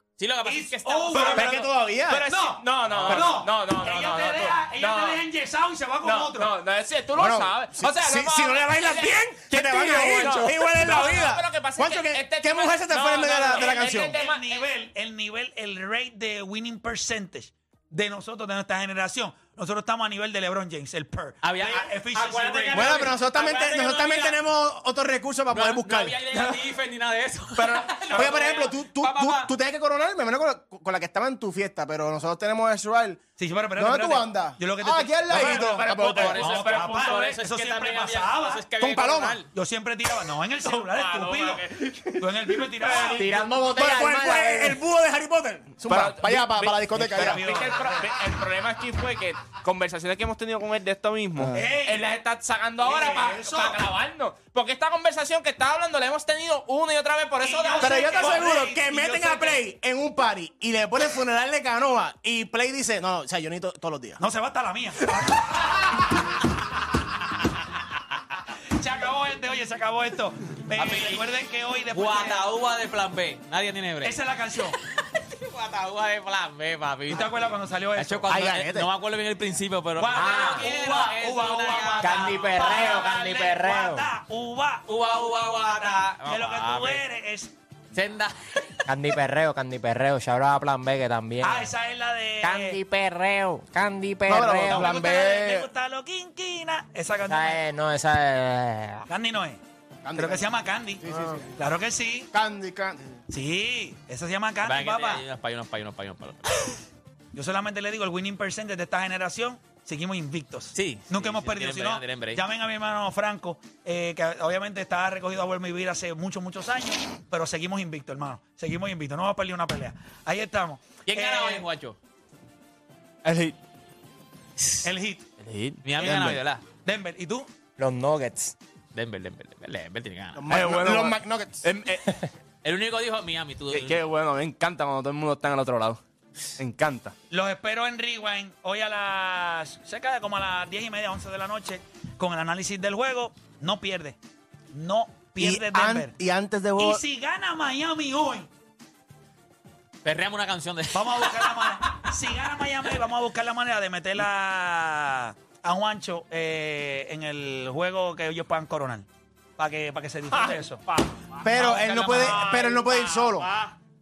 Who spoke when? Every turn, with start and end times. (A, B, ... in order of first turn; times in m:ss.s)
0:00.2-0:01.6 A
0:00.4-0:01.7 B
0:01.2-0:05.2 C
0:01.2-0:02.3 D
0:02.2-0:06.6 B
0:02.9-0:03.3 A
0:03.0-0:03.4 D
0:06.0-0:14.6 C
0:07.1-0:14.2 D
0:13.5-0:23.1 B
0:21.4-0:24.4 A
0:22.7-0:26.6 D
0:25.5-0:29.5 A
0:27.6-0:33.2 D
0:27.6-0:28.4 C
0:33.4-0:38.6 B
0:33.8-0:36.6 D
0:35.3-0:37.3 C
0:36.1-0:39.5 A
0:38.8-0:39.4 D
0:39.5-0:43.3 B
0:40.6-0:42.2 C
0:42.7-0:43.4 C
0:43.2-0:44.8 E
0:43.2-0:47.6 D
0:45.8-0:58.4 C
0:47.0-0:48.1 B
0:51.4-0:51.7 D
0:51.5-0:52.1 B
0:52.8-0:53.8 B
0:57.4-0:59.6 B
0:57.7-1:04.2 D
1:04.2-1:05.7 B
1:08.8-1:12.5 B
1:10.8-1:11.2 A
1:11.9-1:14.2 A
1:14.0-1:14.8 B
1:15.0-1:23.0 A
1:17.1-1:18.4 B
1:18.3-1:18.9 D
1:20.0-1:27.5 B
1:20.1-1:20.7 E
1:22.0-1:24.1 E
1:24.9-1:27.0 A
1:27.9-1:28.9 A
1:28.9-1:31.7 E
1:31.4-1:32.8 B
1:32.4-1:35.2 E
1:34.3-1:35.7 D
1:34.6-1:37.6 B
1:37.3-1:39.1 E
1:39.1-1:39.6 B
1:40.0-1:40.5 D
1:40.2-1:41.0 B
1:41.0-1:41.4 D
1:41.5-1:42.3 B
1:42.3-1:43.2 D
1:43.3-1:45.2 B
1:44.6-1:46.7 A
1:47.3-2:01.7 B
1:50.7-1:52.4 A
2:01.1-2:02.0 A
2:03.2-2:03.6 C
2:04.8-2:05.2 B
2:05.4-2:05.8 C
2:05.8-2:06.6 A
2:06.0-2:06.4 D
2:06.8-2:07.5 B
2:07.8-2:08.6 E
2:08.9-2:10.4 A
2:10.4-2:11.7 D
2:10.5-2:12.1 C
2:12.6-2:13.9 A
2:13.7-2:16.0 C
2:13.9-2:15.2 D
2:16.6-2:17.1 C
2:17.3-2:24.2 B
2:24.7-2:26.2 B
2:25.4-2:27.0 D
2:26.8-2:28.5 B
2:30.0-2:31.8 A
2:30.9-2:40.8 B
2:40.3-2:42.6 C
2:41.4-2:43.5 D
2:41.5-2:43.3 B
2:43.3-2:43.7 C